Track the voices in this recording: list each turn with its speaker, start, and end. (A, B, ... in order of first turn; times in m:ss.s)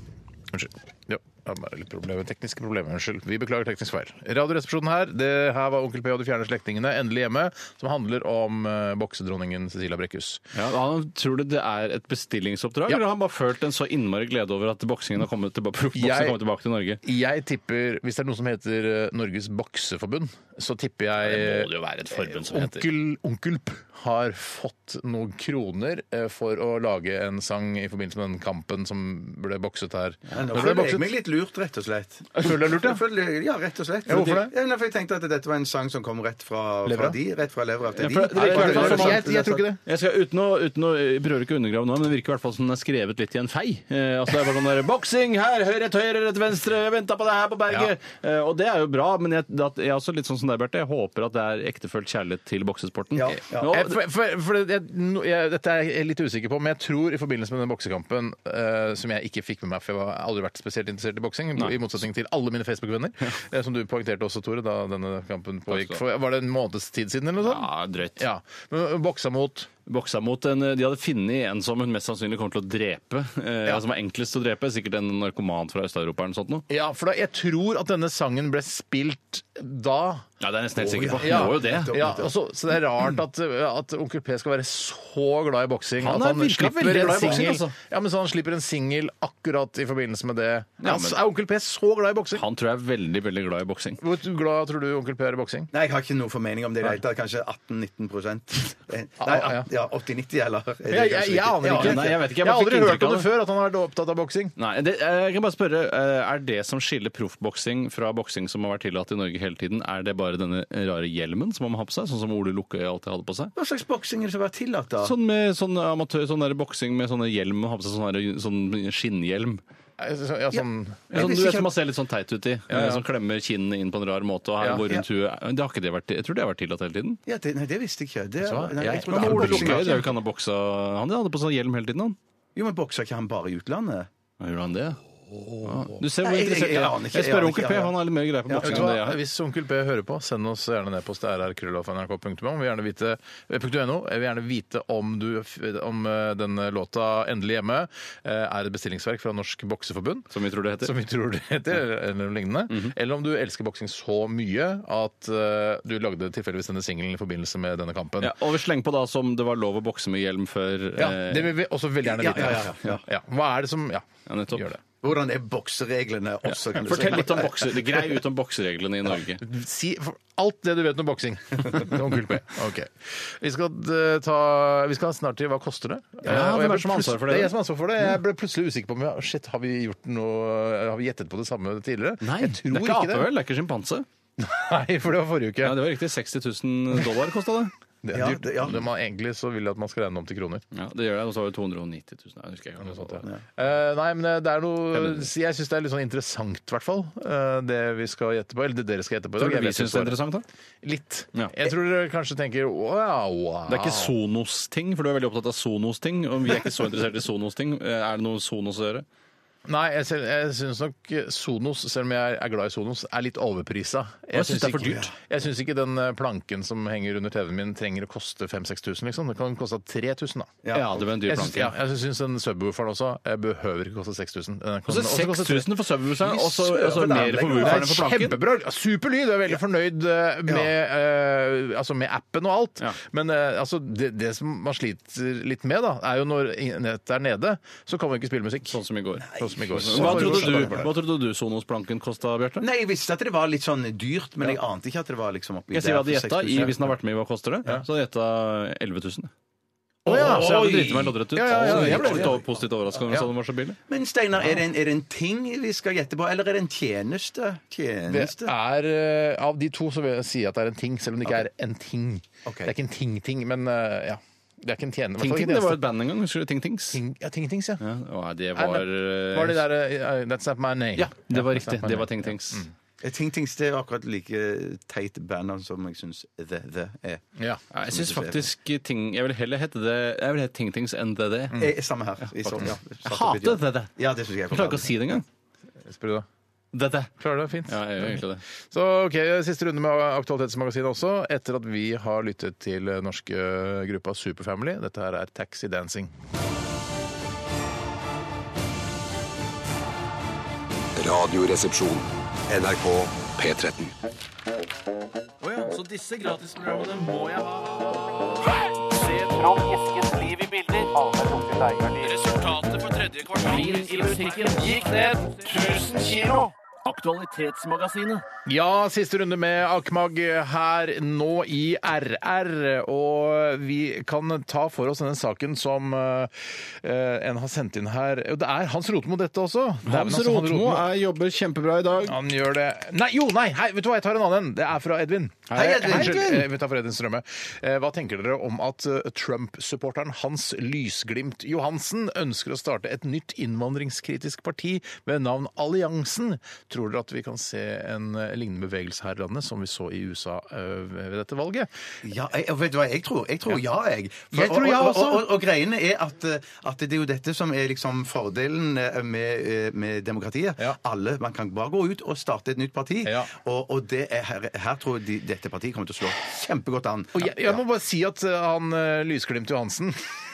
0:00.5-0:10.4 A
0:10.5-0:17.0 B
0:15.9-0:16.4 A
0:17.0-0:31.1 A
0:21.2-0:22.9 B
0:30.3-0:39.6 C
0:32.4-0:33.0 A
0:34.0-0:34.5 A
0:36.8-0:37.2 A
0:38.0-0:54.0 B
0:38.3-0:39.8 A
0:53.2-0:53.7 C
0:53.6-1:09.7 A
1:05.7-1:06.0 B
1:07.4-1:08.2 B
1:09.8-1:16.6 B
1:16.7-1:20.3 A
1:20.4-1:22.0 B
1:20.8-1:22.3 C
1:21.2-1:32.4 A
1:26.0-1:27.7 B
1:30.8-1:31.2 B
1:32.3-1:34.0 B
1:34.0-1:35.7 A
1:35.7-1:42.2 C
1:39.2-1:39.7 A
1:40.9-1:44.6 A
1:41.6-1:43.3 B
1:44.6-1:53.5 B
1:53.6-1:55.1 C
1:55.0-1:59.6 B
2:00.0-2:01.1 A
2:01.1-2:07.2 B
2:01.1-2:01.7 C
2:02.7-2:03.0 A
2:07.2-2:10.0 C
2:08.4-2:10.1 A
2:08.8-2:12.2 B
2:12.5-2:14.1 C
2:14.4-2:15.0 B
2:15.6-2:19.2 B
2:16.0-2:18.0 C
2:18.5-2:18.9 C
2:18.6-2:38.4 A
2:30.3-2:30.9 B
2:38.2-2:41.5 B
2:41.0-2:44.8 A
2:42.0-2:43.0 C
2:44.2-2:44.7 B
2:45.0-2:47.8 C
2:46.5-2:49.4 B
2:49.4-3:03.3 A
2:56.2-2:57.5 B
3:02.2-3:04.0 B
3:04.4-3:05.8 A
3:05.6-3:07.7 B
3:08.0-3:10.6 A
3:08.1-3:08.8 C
3:10.7-3:13.2 B
3:12.8-3:20.2 A
3:19.4-3:20.4 B
3:20.8-3:24.1 A
3:23.7-3:29.0 B
3:29.6-3:40.5 A
3:34.3-3:35.1 B
3:34.8-3:35.1 C
3:40.6-3:40.9 C
3:40.7-3:41.7 B
3:41.2-3:45.7 A
3:44.9-3:48.4 B
3:46.2-3:47.9 C
3:47.0-3:58.8 A
3:58.7-4:02.6 B
3:59.2-4:00.9 C
3:59.3-4:00.9 A
4:02.6-4:06.8 C
4:05.7-4:09.3 B
4:10.0-4:12.4 A
4:10.1-4:12.5 C
4:10.1-4:13.8 B
4:13.9-4:18.5 C
4:18.1-4:25.8 A
4:22.4-4:22.7 C
4:25.2-4:27.0 B
4:26.9-4:27.8 A
4:27.8-4:29.6 B
4:28.5-4:32.7 A
4:31.0-4:32.6 B
4:33.0-4:37.2 C
4:37.7-4:41.6 B
4:37.9-4:38.4 C
4:41.6-4:44.9 C
4:42.4-4:43.9 B
4:44.5-4:45.2 B
4:45.8-4:46.3 A
4:46.7-4:47.1 B
4:47.2-4:56.1 A
4:47.6-4:48.4 B
5:01.0-5:04.0 D
5:05.4-5:08.0 B
5:08.7-5:18.2 B
5:18.4-5:30.9 A
5:29.8-5:32.2 B
5:32.0-5:51.7 A
5:35.5-5:36.4 C
5:52.0-6:07.5 C
5:54.3-5:55.3 A
6:03.0-6:03.3 A
6:07.1-6:10.2 A